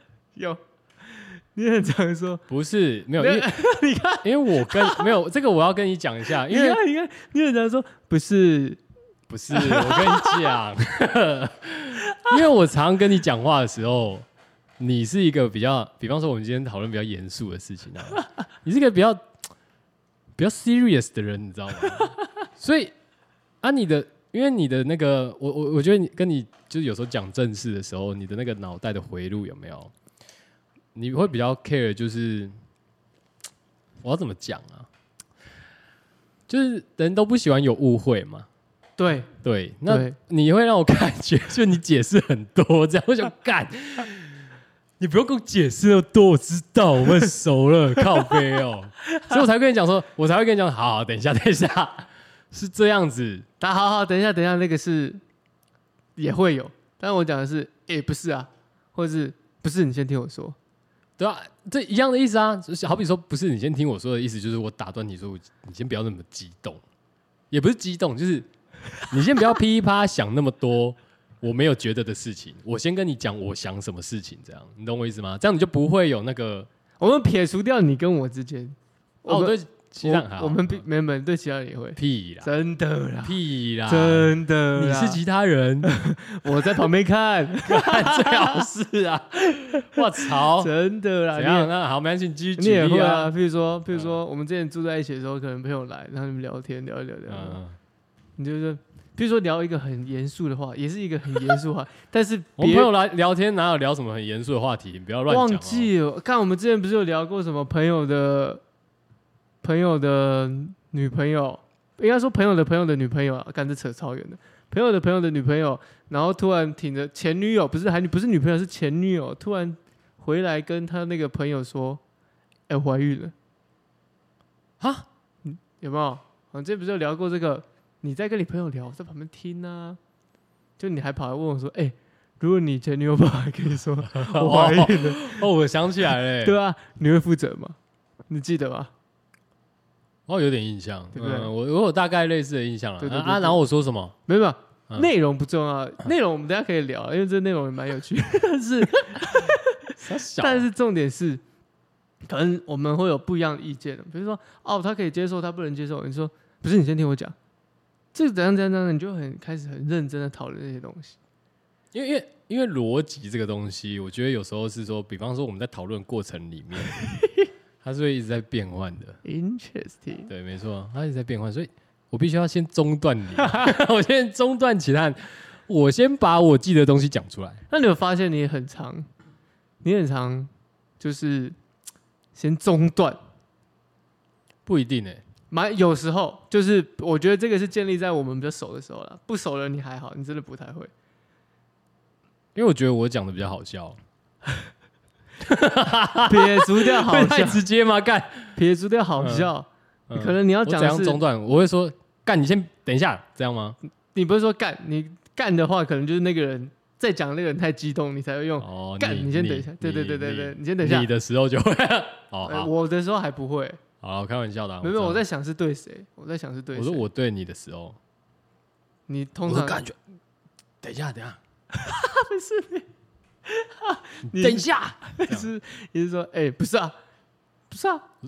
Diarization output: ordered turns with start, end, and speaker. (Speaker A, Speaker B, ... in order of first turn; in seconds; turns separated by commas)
Speaker A: 0.3-2.4, Speaker B: 2.5-3.5, Speaker A: 3.2-5.1, Speaker B: 4.2-6.8, Speaker A: 6.5-8.8, Speaker B: 9.3-14.2, Speaker A: 9.5-10.4, Speaker B: 14.8-19.2, Speaker B: 20.4-22.9, Speaker B: 23.6-29.9, Speaker B: 30.9-32.5, Speaker B: 34.0-34.9, Speaker B: 36.5-38.5, Speaker A: 39.0-39.3, Speaker B: 39.4-44.4, Speaker A: 39.9-40.1, Speaker B: 45.0-53.5, Speaker A: 53.6-55.2, Speaker A: 56.1-60.6, Speaker B: 61.2-66.8, Speaker B: 67.5-68.5, Speaker B: 69.1-76.7, Speaker A: 77.0-85.2, Speaker B: 79.3-80.8, Speaker B: 82.0-82.5, Speaker B: 83.2-85.9, Speaker A: 85.8-88.7, Speaker B: 87.6-90.7, Speaker A: 89.5-91.7, Speaker B: 91.3-93.3, Speaker A: 92.6-97.6, Speaker B: 93.9-94.2, Speaker B: 97.3-97.8, Speaker A: 98.4-102.9, Speaker B: 102.6-105.9, Speaker A: 105.3-108.6, Speaker A: 109.6-122.0, Speaker A: 122.7-123.3, Speaker B: 124.8-125.1, Speaker A: 125.4-130.0, Speaker A: 130.8-135.4, Speaker B: 134.1-136.6, Speaker A: 136.4-137.8, Speaker A: 138.3-138.9, Speaker B: 140.3-144.2, Speaker A: 141.1-141.5, Speaker A: 143.0-143.6, Speaker A: 144.3-151.4, Speaker B: 150.0-150.7, Speaker A: 152.2-157.3, Speaker A: 158.1-161.2, Speaker B: 161.9-167.0, Speaker A: 167.1-167.4, Speaker B: 167.8-169.2, Speaker A: 169.2-170.3, Speaker B: 170.3-177.6, Speaker A: 173.4-173.7, Speaker A: 177.7-179.1, Speaker A: 179.8-181.6, Speaker A: 182.3-183.2, Speaker B: 184.7-185.2, Speaker A: 185.5-190.9, Speaker B: 192.5-194.0, Speaker B: 195.4-198.6, Speaker A: 196.3-197.6, Speaker A: 198.6-201.2, Speaker B: 199.2-199.5, Speaker B: 200.1-203.8, Speaker A: 204.1-211.1, Speaker B: 208.6-212.7, Speaker A: 212.4-213.8, Speaker B: 214.0-215.2, Speaker A: 214.8-217.1, Speaker B: 216.7-218.0, Speaker A: 219.1-219.8, Speaker B: 219.5-220.0, Speaker B: 220.8-221.4, Speaker A: 221.7-222.9, Speaker A: 223.4-226.9, Speaker B: 224.2-225.5, Speaker A: 227.7-228.1